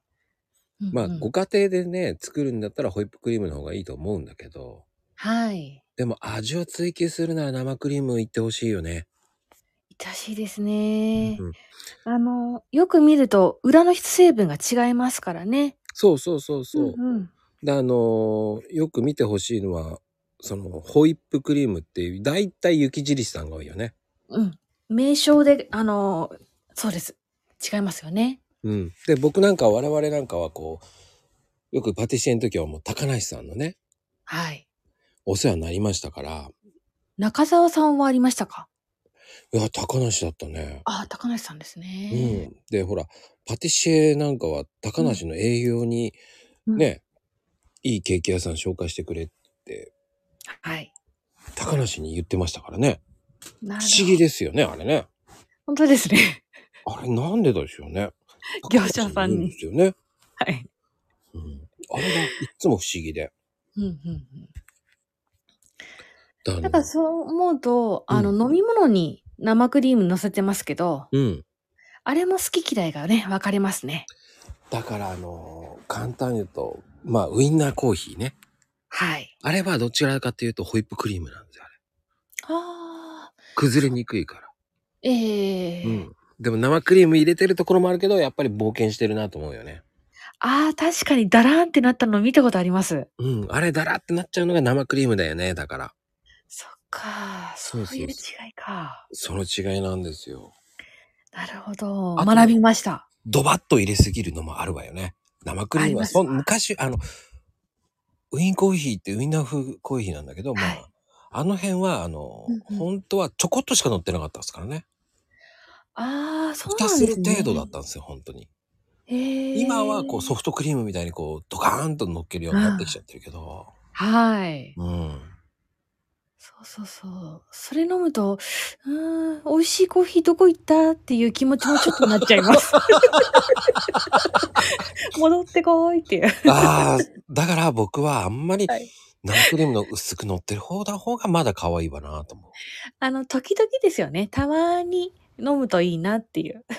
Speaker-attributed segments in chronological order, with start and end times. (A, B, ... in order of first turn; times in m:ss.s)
0:00.8-0:01.3 A
0:00.9-0:04.8 B
0:05.2-0:05.8 A
0:06.0-0:09.0 B
0:09.9-0:11.4 A
0:11.2-0:11.5 B
0:12.0-0:15.8 A
0:15.9-0:17.0 B
0:16.7-0:17.3 A
0:17.6-0:23.9 B
0:24.3-0:28.4 A
0:28.6-0:30.8 B
0:31.7-0:33.8 B
0:34.3-0:34.6 A
0:35.2-0:36.5 B
0:37.2-0:38.7 A
0:39.5-0:40.8 B
0:40.8-0:42.4 A
0:42.1-0:46.2 B
0:46.8-0:47.0 B
0:47.8-0:49.9 B
0:50.6-0:50.9 A
0:51.6-0:53.0 B
0:53.6-0:54.2 A
0:53.8-0:55.1 B
0:55.7-0:56.4 A
0:56.8-0:58.1 B
0:58.6-0:59.6 A
0:58.6-0:59.9 B
1:00.4-1:00.7 A
1:01.3-1:03.3 B
1:03.8-1:04.5 A
1:06.4-1:06.9 B
1:06.6-1:11.1 A
1:11.1-1:11.4 B
1:12.0-1:14.1 A
1:14.7-1:18.4 B
1:18.9-1:19.3 A
1:19.4-1:21.7 B
1:22.5-1:23.3 A
1:23.6-1:24.5 B
1:25.0-1:26.0 A
1:25.8-1:29.8 B
1:30.4-1:33.1 A
1:33.2-1:35.9 B
1:36.5-1:39.0 A
1:37.7-1:38.2 B
1:39.1-1:40.5 B
1:41.3-1:43.0 A
1:42.2-1:42.6 B
1:43.2-1:47.0 B
1:45.7-1:46.4 A
1:48.3-1:54.8 B
1:50.6-1:50.8 A
1:52.5-1:52.9 A
1:55.9-1:57.7 A
1:56.7-1:58.5 B
1:59.1-2:00.3 A
1:59.5-2:03.7 B
2:02.5-2:03.0 A
2:03.9-2:04.8 A
2:04.8-2:05.3 B
2:06.4-2:13.8 A
2:15.1-2:16.7 A
2:16.5-2:22.5 B
2:18.7-2:19.5 A
2:23.0-2:26.6 A